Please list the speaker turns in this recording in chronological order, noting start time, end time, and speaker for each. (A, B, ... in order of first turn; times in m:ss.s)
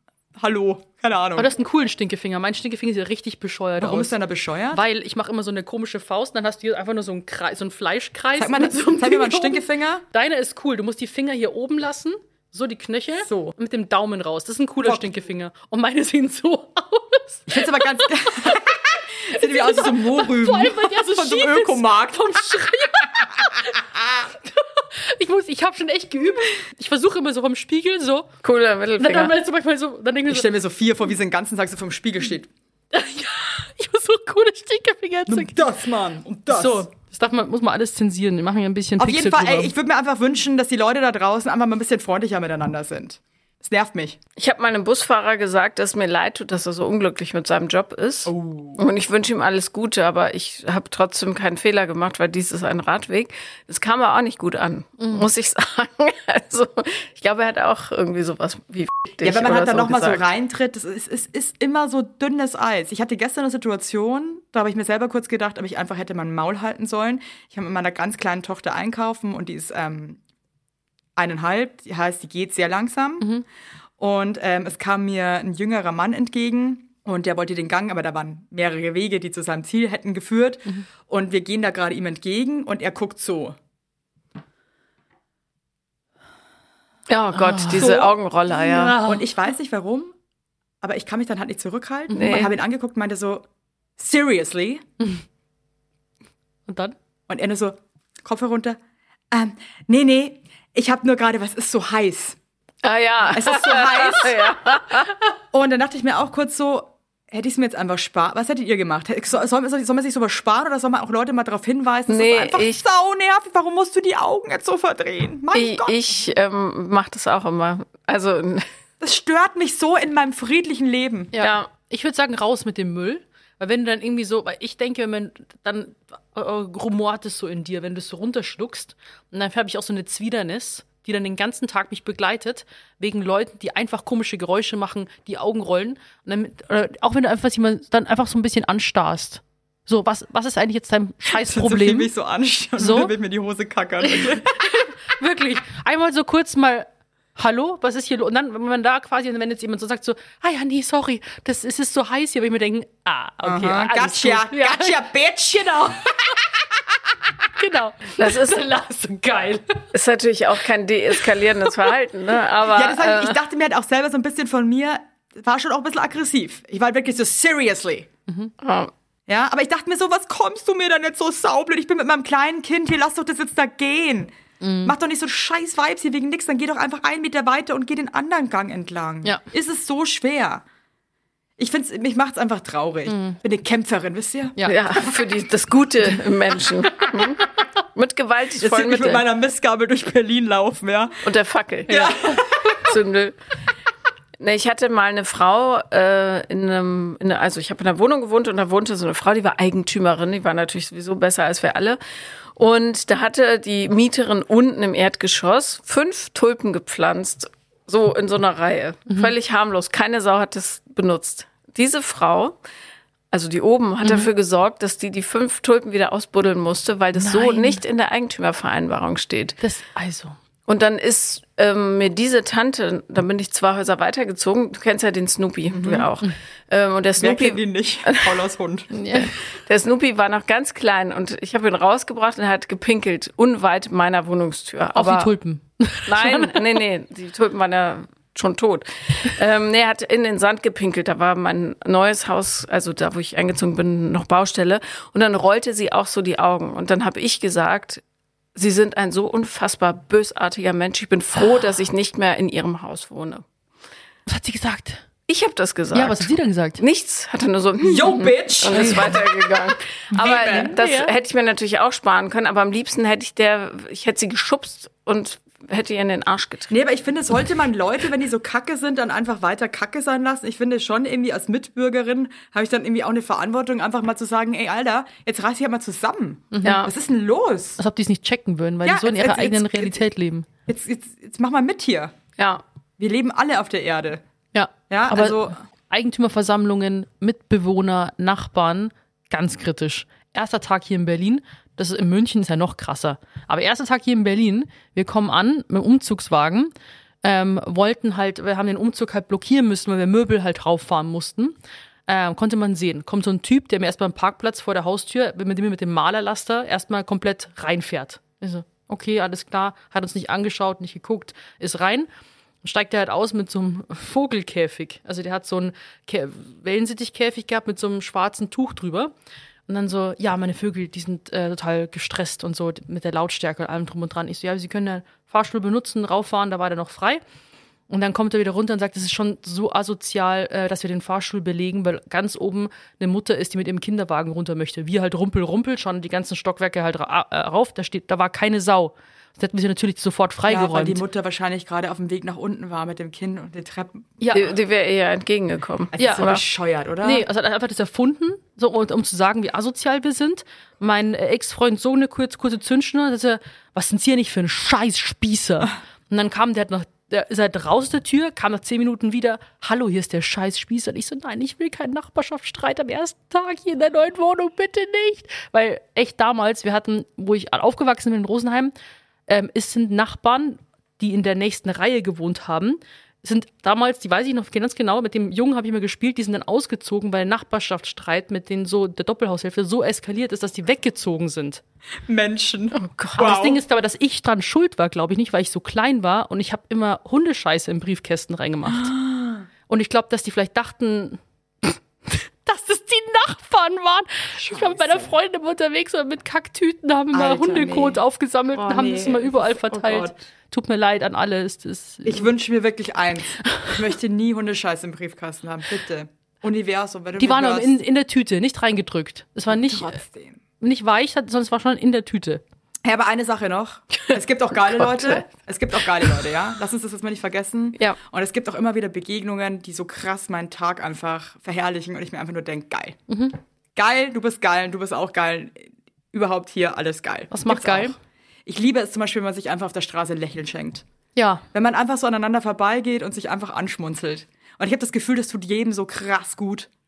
0:00.4-0:01.5 A
0:01.4-0:04.2 B
0:03.8-0:04.8 A
0:04.7-0:17.6 B
0:08.4-0:10.0 A
0:13.2-0:13.5 A
0:14.8-0:15.1 A
0:17.5-0:22.4 A
0:19.3-0:28.3 B
0:28.4-0:29.3 C
0:29.0-0:30.5 B
0:30.3-0:32.5 A
0:32.9-0:35.6 B
0:35.3-0:36.8 A
0:36.5-0:39.7 B
0:39.0-0:44.2 A
0:44.4-1:00.2 C
0:48.2-0:48.8 A
0:55.0-0:55.2 B
0:59.2-1:10.2 A
1:11.2-1:13.3 A
1:14.0-1:23.6 A
1:27.1-1:29.0 C
1:27.3-1:29.3 B
1:27.8-1:28.1 A
1:29.0-1:30.1 A
1:30.8-1:33.4 A
1:32.1-1:32.4 B
1:32.1-1:32.5 C
1:34.0-1:34.8 A
1:36.7-1:36.9 B
1:37.3-1:38.8 A
1:39.3-1:42.4 A
1:42.8-1:45.1 C
1:43.3-1:44.6 A
1:45.5-1:56.0 A
1:52.1-1:52.8 C
1:55.5-1:58.7 C
1:59.0-2:01.3 A
2:01.3-2:22.1 B
2:01.4-2:01.7 C
2:21.2-2:24.6 A
2:22.8-2:23.1 B
2:24.0-2:35.0 B
2:33.4-2:36.3 A
2:37.5-2:39.9 B
2:38.2-2:38.7 C
2:39.9-2:43.4 C
2:42.6-2:48.1 A
2:48.6-2:48.9 C
2:49.3-3:00.6 A
2:54.6-2:54.9 B
3:01.6-3:05.1 A
3:03.1-3:03.4 B
3:04.6-3:09.2 C
3:08.6-3:11.2 A
3:11.2-3:13.4 C
3:11.9-3:12.8 A
3:14.4-3:22.0 C
3:22.6-3:32.6 C
3:33.3-3:39.6 C
3:34.0-3:34.3 B
3:37.2-3:37.8 B
3:39.6-3:40.3 B
3:40.7-3:48.3 C
3:45.7-3:46.1 A
3:47.2-3:48.9 A
3:48.9-3:49.3 B
3:49.0-3:55.3 C
3:54.9-3:56.8 B
3:56.1-4:08.0 C
4:08.5-4:13.4 C
4:14.3-4:15.0 B
4:15.3-4:26.8 C
4:15.9-4:16.8 B
4:17.8-4:19.2 A
4:18.7-4:19.2 B
4:20.1-4:20.8 A
4:20.1-4:21.1 B
4:26.7-4:37.8 A
4:36.5-4:36.9 B
4:36.6-4:36.9 C
4:37.8-4:40.4 B
4:38.8-4:40.1 A
4:40.7-4:42.1 A
4:42.4-4:42.6 C
4:43.0-4:44.2 A
4:44.5-4:56.7 B
4:44.9-4:45.6 A
4:57.2-5:01.6 B
5:02.1-5:12.1 B
5:12.6-5:19.1 B
5:19.7-5:27.2 B
5:27.9-5:41.0 B
5:40.5-5:44.2 A
5:44.2-5:44.5 B
5:44.3-5:46.4 C
5:45.9-5:47.2 A
5:46.0-5:46.3 B
5:47.0-6:08.7 B
6:09.3-6:21.6 B
6:22.0-6:23.6 A
6:22.7-6:23.2 C
6:23.2-6:28.9 B
6:28.7-6:29.5 A
6:29.7-6:42.3 B
6:34.4-6:35.1 A
6:37.1-6:38.0 A
6:38.5-6:40.2 A
6:42.0-6:47.8 A
6:43.4-6:43.8 B
6:47.2-6:50.0 B
6:49.5-6:50.4 A
6:50.6-6:52.4 B
6:52.8-7:03.0 A
6:54.8-6:55.2 C
7:03.1-7:03.4 B
7:03.8-7:10.8 A
7:07.3-7:07.9 B
7:11.2-7:11.4 B
7:11.5-7:16.7 A